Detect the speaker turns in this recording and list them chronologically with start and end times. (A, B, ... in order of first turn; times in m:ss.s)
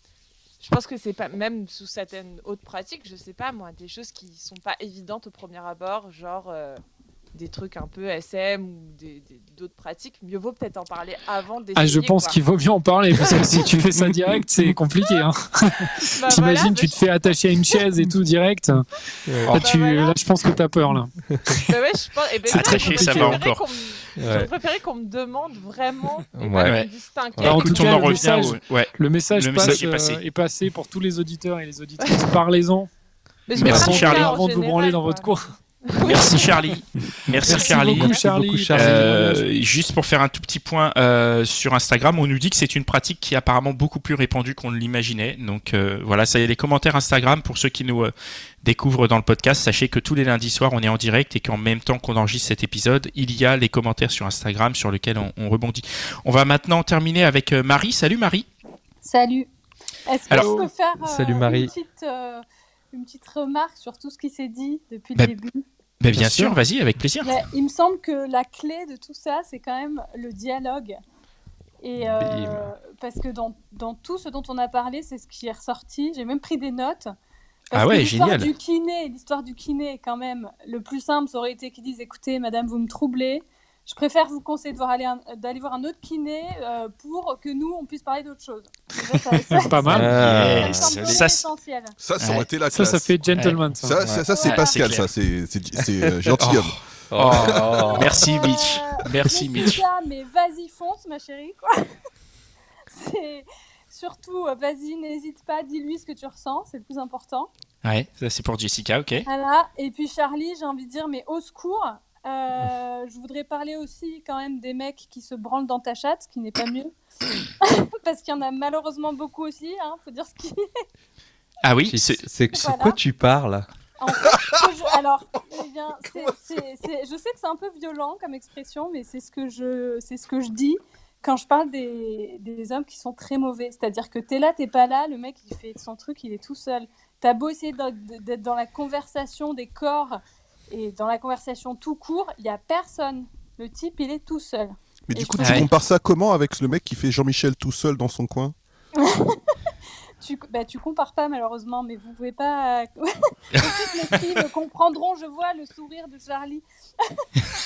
0:00.6-0:06.8 A
0:07.3-0:12.4 A
0:11.8-0:18.8 B
0:13.2-0:13.8 A
0:16.2-0:17.1 A
0:19.3-0:19.6 C
0:19.5-0:21.1 B
0:19.5-0:20.3 A
0:21.7-0:28.6 A
0:22.5-0:23.4 B
0:22.5-0:23.6 D
0:24.2-0:24.5 C
0:26.3-0:26.8 C
0:27.4-0:27.6 C
0:27.4-0:30.2 D
0:27.4-0:32.9 B
0:32.0-0:32.4 A
0:33.5-0:36.6 A
0:33.6-0:34.3 D
0:33.6-0:35.5 B
0:33.7-0:34.0 C
0:36.0-0:38.2 D
0:37.5-0:38.2 A
0:37.5-0:39.4 C
0:37.5-0:39.2 B
0:38.7-0:48.1 D
0:48.6-0:58.5 D
0:59.0-0:59.5 E
1:00.1-1:05.6 E
1:00.3-1:00.7 B
1:01.0-1:01.7 C
1:06.0-1:07.4 D
1:07.2-1:11.0 E
1:11.8-1:17.1 E
1:12.0-1:12.7 C
1:17.7-1:32.0 E
1:17.7-1:18.5 D
1:29.5-1:30.3 B
1:29.9-1:31.2 C
1:30.1-1:31.5 D
1:32.0-1:38.0 F
1:32.2-1:32.5 D
1:32.7-1:34.0 B
1:33.4-1:33.6 D
1:34.0-1:34.3 C
1:34.2-1:34.8 E
1:34.4-1:35.1 D
1:35.8-1:36.6 C
1:36.4-1:39.8 D
1:37.1-1:38.2 C
1:38.1-1:41.9 E
1:42.9-1:47.5 E
1:47.8-1:49.3 D
1:49.3-1:57.0 E
1:57.6-2:00.6 E
2:01.6-2:02.3 D
2:01.9-2:03.7 C
2:02.5-2:03.0 E
2:04.0-2:25.7 E
2:25.1-2:28.6 F
2:25.4-2:25.7 D
2:29.0-2:29.6 E
2:30.2-2:37.3 E
2:33.6-2:34.4 D